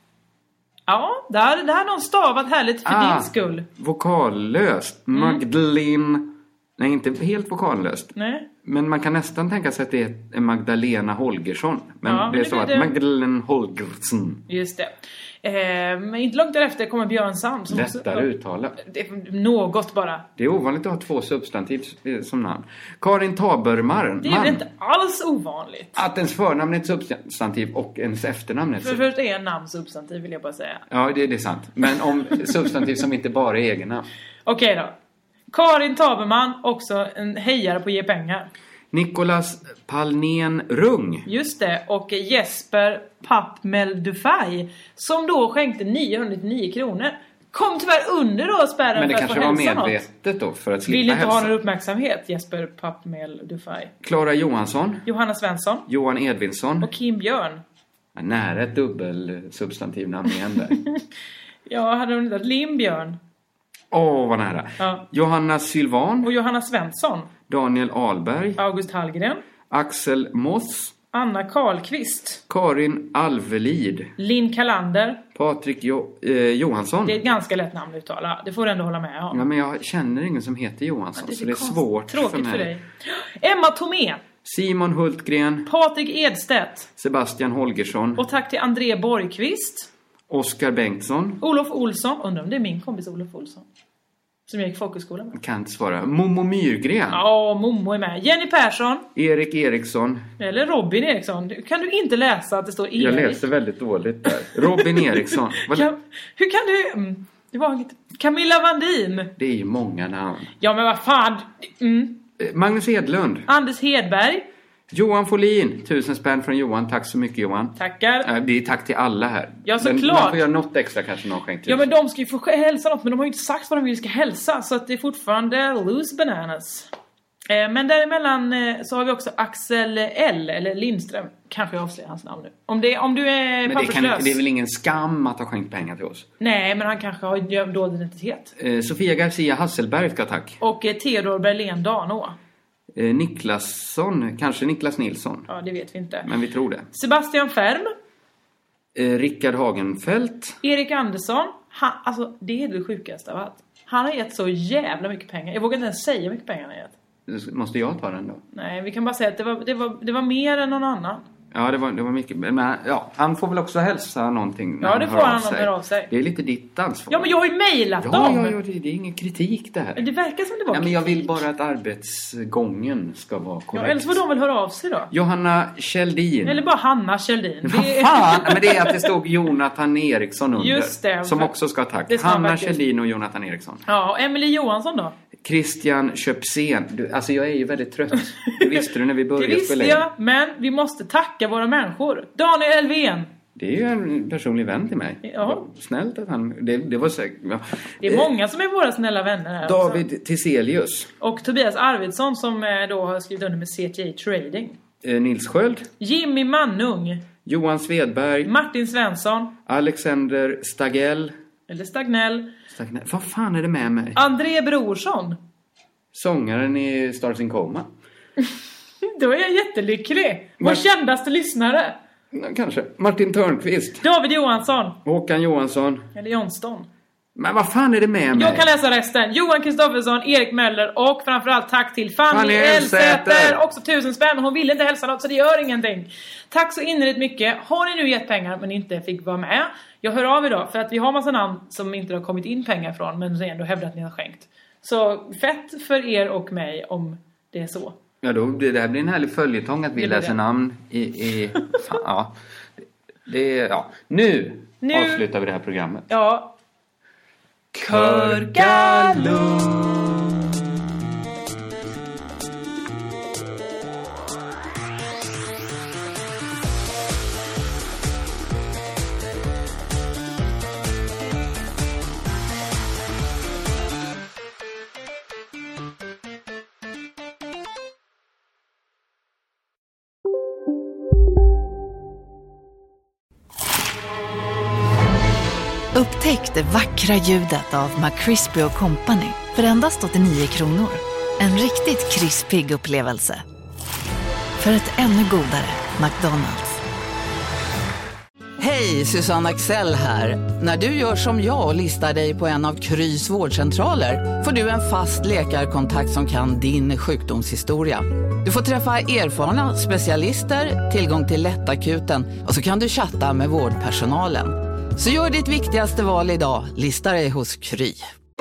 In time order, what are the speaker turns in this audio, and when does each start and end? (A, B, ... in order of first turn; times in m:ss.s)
0:00.9-0:03.7 A
0:02.8-0:08.1 B
0:05.1-0:05.4 A
0:08.2-0:08.5 A
0:08.6-0:14.4 B
0:12.0-0:12.9 A
0:14.5-0:20.2 A
0:17.7-0:18.8 B
0:20.4-0:24.6 B
0:24.2-0:26.0 A
0:26.0-0:29.0 B
0:28.8-0:30.8 A
0:30.9-0:34.1 B
0:34.5-0:34.9 A
0:35.5-0:38.5 A
0:38.9-0:41.3 B
0:41.2-0:50.0 A
0:49.0-0:51.6 B
0:50.9-0:53.9 A
0:54.0-0:55.0 B
0:55.1-0:55.9 A
0:55.9-0:56.9 B
0:56.8-0:57.6 A
0:58.2-1:00.8 B
1:01.7-1:03.2 A
1:03.9-1:06.3 B
1:04.8-1:05.0 A
1:06.2-1:07.3 A
1:07.5-1:08.6 B
1:08.6-1:09.4 A
1:09.7-1:10.9 B
1:11.1-1:12.4 A
1:12.5-1:14.1 B
1:14.2-1:15.2 A
1:15.4-1:17.2 B
1:17.0-1:19.4 A
1:19.3-1:22.7 B
1:21.2-1:24.2 A
1:24.4-1:25.7 B
1:25.7-1:26.9 A
1:27.0-1:28.2 B
1:28.2-1:29.9 A
1:30.3-1:31.4 B
1:31.4-1:33.6 A
1:34.5-1:35.4 A
1:35.3-1:37.2 B
1:37.1-1:39.1 A
1:39.2-1:40.3 B
1:40.4-1:43.5 A
1:43.0-1:45.9 B
1:44.3-1:49.3 A
1:49.4-1:50.5 B
1:50.6-1:52.2 A
1:52.4-1:53.5 B
1:53.5-1:54.5 A
1:54.9-2:01.9 B
1:57.8-1:58.3 A
1:59.6-2:00.4 A
2:01.7-2:06.9 A
2:07.5-2:14.4 A
2:13.6-2:16.3 B
2:16.4-2:18.5 A
2:18.6-2:20.6 B
2:20.6-2:22.4 A
2:22.9-2:25.5 B
2:25.5-2:26.3 A
2:26.2-2:26.9 B
2:26.9-2:27.9 A
2:29.0-2:30.6 B
2:30.6-2:36.9 A
2:37.3-2:38.4 B
2:38.5-2:41.2 A
2:41.5-2:47.3 B
2:44.8-2:46.1 A
2:47.1-2:48.6 A
2:48.0-2:50.1 B
2:50.0-2:51.4 A
2:50.7-2:54.2 B
2:53.7-2:55.1 A
2:55.1-2:56.6 B
2:56.4-2:59.1 A
2:57.6-3:03.8 B
3:00.6-3:01.6 A
3:02.1-3:02.8 A
3:03.9-3:05.1 A
3:05.4-3:10.1 B
3:08.5-3:08.8 A
3:09.4-3:13.3 A
3:13.6-3:18.3 B
3:15.2-3:15.6 A
3:18.0-3:20.0 A
3:19.6-3:21.1 B
3:21.2-3:24.8 A
3:25.0-3:25.9 B
3:26.0-3:27.2 A
3:27.4-3:28.5 B
3:28.4-3:29.5 A
3:29.7-3:31.3 B
3:31.7-3:32.5 A
3:32.7-3:34.2 B
3:34.2-3:35.4 A
3:36.1-3:37.9 B
3:39.0-3:42.0 A
3:42.3-3:44.1 B
3:44.0-3:45.0 A
3:45.0-3:46.1 B
3:46.2-3:46.9 A
3:47.4-3:48.7 B
3:48.3-4:08.0 A
3:52.3-3:53.6 B
4:08.2-4:16.1 B
4:10.0-4:10.4 A
4:14.8-4:15.2 A
4:16.1-4:16.5 A
4:17.7-4:20.4 B
4:17.8-4:19.5 A
4:46.0-4:53.4 C
4:52.7-4:53.1 D
4:54.6-4:56.8 C
4:58.6-5:18.0 D